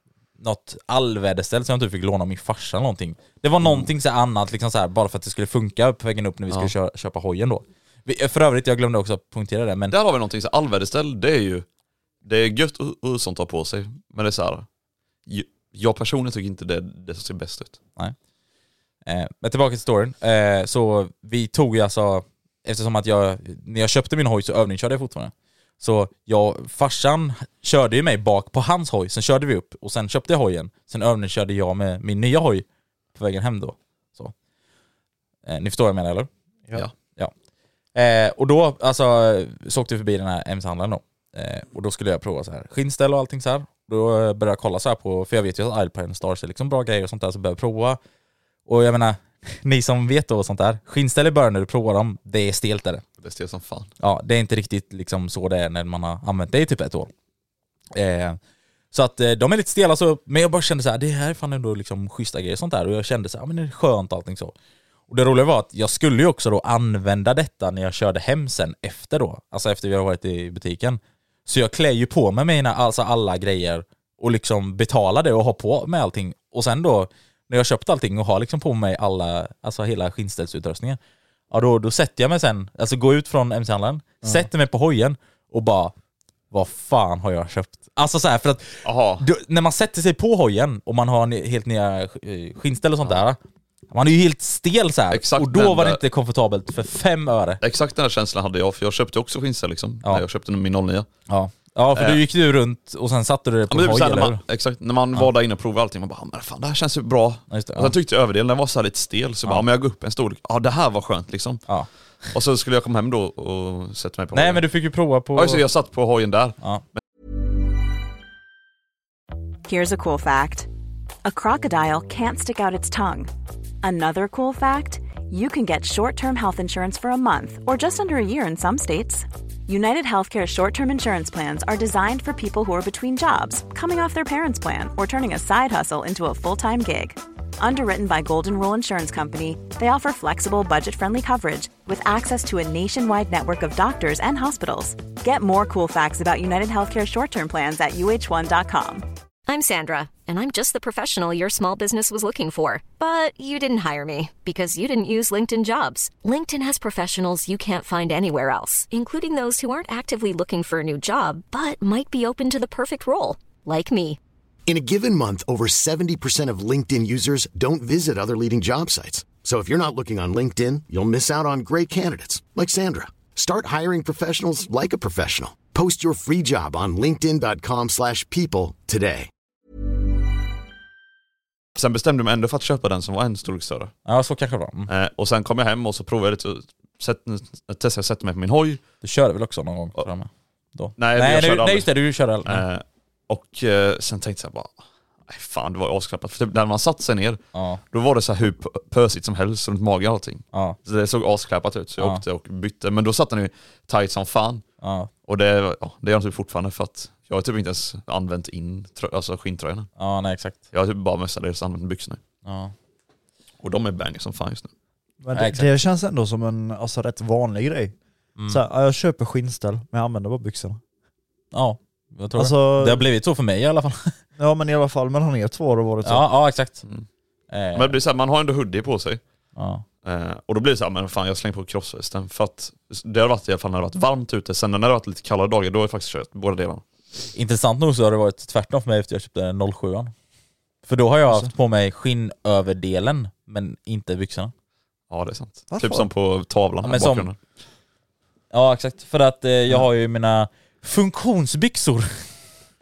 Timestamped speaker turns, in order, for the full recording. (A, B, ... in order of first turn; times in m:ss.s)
0:00.4-0:10.0 A
0:03.6-0:03.9 B
0:09.9-0:11.7 B
0:12.2-0:14.7 B
0:15.3-0:17.8 B
0:19.0-0:34.3 A
0:35.5-0:36.3 A
0:38.0-0:48.0 A
0:48.7-0:53.0 A
0:53.2-0:53.9 B
0:54.0-0:57.1 A
0:57.9-0:58.4 A
0:58.9-1:04.5 A
1:05.1-1:21.0 A
1:21.5-1:25.9 A
1:26.5-1:33.4 A
1:28.8-1:29.3 B
1:33.9-1:37.6 A
1:35.1-1:36.0 B
1:37.6-1:41.1 B
1:41.3-1:44.4 A
1:42.0-1:42.2 B
1:43.7-1:51.6 B
1:47.5-1:47.9 A
1:52.3-1:54.6 B
1:54.3-1:55.6 A
1:55.4-1:57.0 B
1:59.7-2:00.7 C
2:01.2-2:03.3 C
2:03.8-2:29.1 C
2:29.5-2:44.2 D
2:44.7-2:59.3 E
3:01.8-3:03.9 B
3:04.1-3:04.9 A
3:04.9-3:08.8 B
3:09.0-3:12.6 A
3:11.0-3:11.9 B
3:12.4-3:14.7 B
3:15.3-3:24.6 B
3:17.5-3:17.8 A
3:24.8-3:25.1 A
3:25.3-3:29.9 B
3:30.0-3:30.6 A
3:30.7-3:32.2 B
3:32.4-3:32.7 A
3:33.6-3:34.7 B
3:35.2-3:38.0 F
3:35.3-3:35.7 A
3:38.5-3:40.8 F
3:41.5-3:44.2 A
3:42.4-3:43.1 F
3:44.4-3:46.3 F
3:46.0-3:46.8 A
3:47.5-3:48.0 A
3:47.8-3:49.2 B
3:49.6-3:49.8 A
3:50.0-3:56.8 B
3:57.3-4:00.1 A
4:00.9-4:04.5 A
4:05.1-4:07.4 B
4:05.7-4:06.1 F
4:06.8-4:07.3 A
4:08.5-4:12.3 A